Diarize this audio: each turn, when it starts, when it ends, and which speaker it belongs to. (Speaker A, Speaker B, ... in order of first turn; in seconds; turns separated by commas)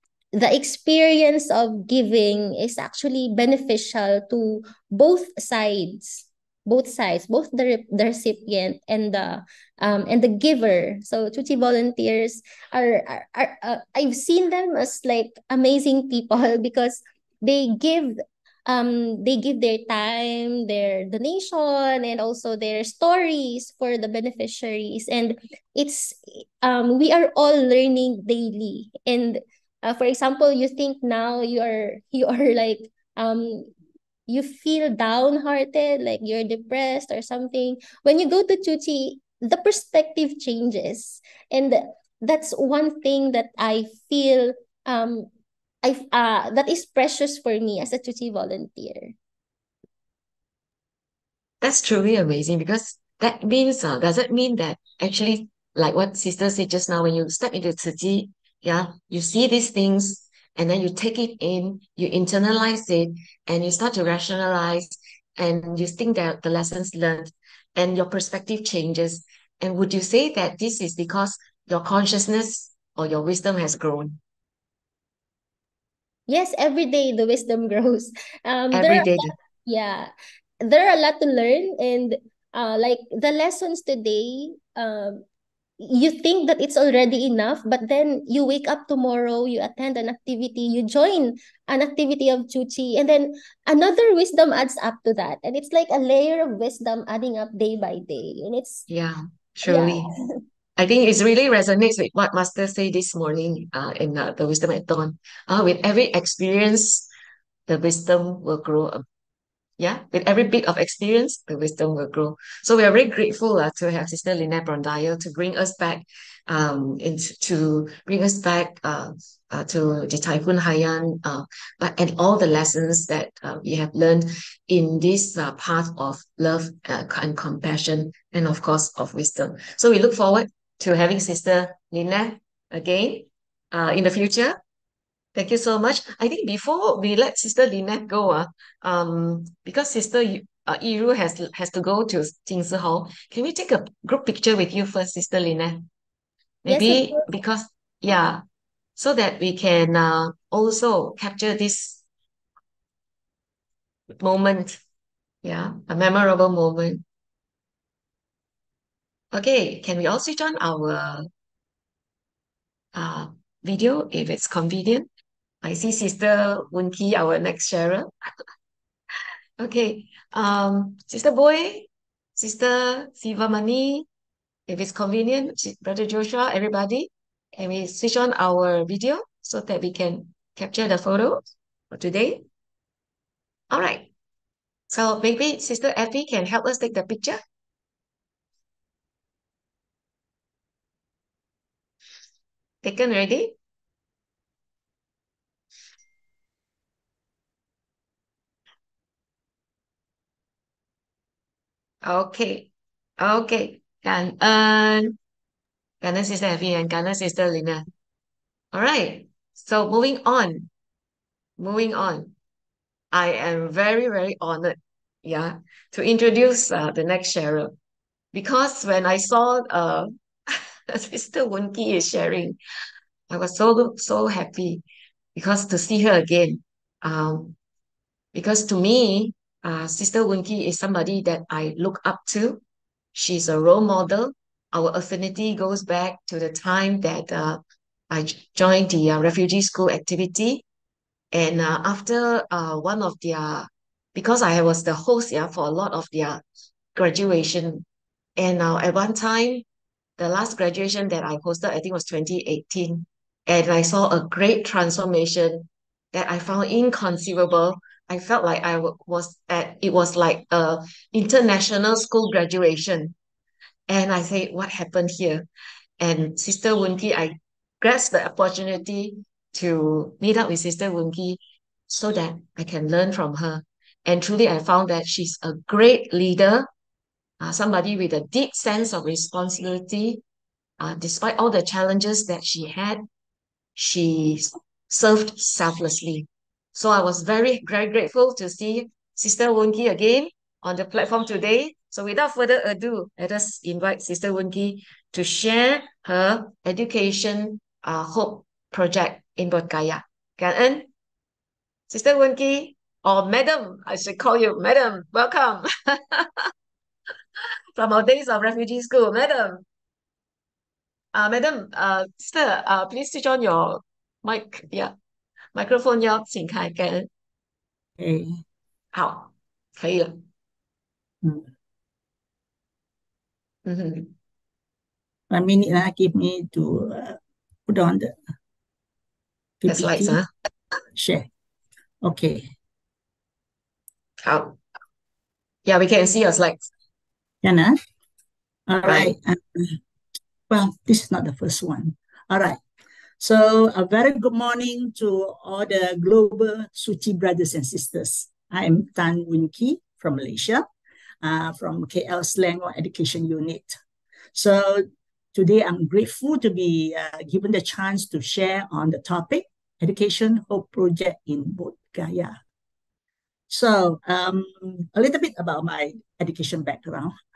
Speaker A: 0.3-33.7, Speaker A: 34.3-45.3, Speaker A: 45.8-49.1, Speaker B: 51.6-74.2, Speaker A: 76.3-80.1, Speaker B: 78.7-79.3, Speaker A: 80.6-85.2, Speaker A: 85.8-98.9, Speaker B: 98.9-100.1, Speaker A: 99.6-100.1, Speaker B: 100.8-107.1, Speaker B: 107.7-109.0, Speaker B: 109.8-134.6, Speaker B: 135.3-145.9, Speaker B: 146.7-148.4, Speaker A: 146.7-147.0, Speaker B: 149.0-152.0, Speaker B: 154.2-154.8, Speaker B: 155.4-157.0, Speaker B: 159.3-161.3, Speaker B: 162.9-165.1, Speaker B: 165.6-168.1, Speaker B: 169.6-174.1, Speaker B: 174.7-182.4, Speaker B: 183.7-184.1, Speaker B: 184.9-187.4, Speaker B: 192.8-193.6, Speaker B: 202.0-205.2, Speaker B: 206.0-207.9, Speaker B: 208.7-210.7, Speaker B: 211.6-212.3, Speaker B: 213.1-217.7, Speaker B: 218.3-222.6, Speaker B: 223.3-224.8, Speaker B: 225.4-227.6, Speaker B: 228.3-232.6, Speaker B: 233.1-240.6, Speaker B: 241.3-246.4, Speaker B: 246.9-247.8, Speaker B: 248.4-249.7, Speaker B: 250.2-263.1, Speaker B: 263.9-265.5, Speaker B: 266.0-276.7, Speaker B: 277.4-280.2, Speaker B: 280.8-283.1, Speaker B: 283.8-300.9, Speaker B: 301.9-306.5, Speaker B: 307.8-309.6, Speaker B: 311.1-314.9, Speaker B: 315.5-317.1, Speaker C: 318.0-318.4, Speaker B: 318.9-320.2, Speaker B: 323.7-324.1, Speaker C: 325.3-328.1, Speaker C: 329.6-330.2, Speaker B: 329.7-330.3, Speaker C: 330.9-331.3, Speaker C: 332.0-332.5, Speaker B: 334.2-334.6, Speaker B: 335.7-336.7, Speaker C: 337.4-337.8, Speaker C: 338.7-339.8, Speaker B: 338.8-339.1, Speaker C: 340.5-342.6, Speaker C: 343.2-350.6, Speaker C: 351.2-353.8, Speaker C: 354.3-362.4, Speaker C: 363.5-367.1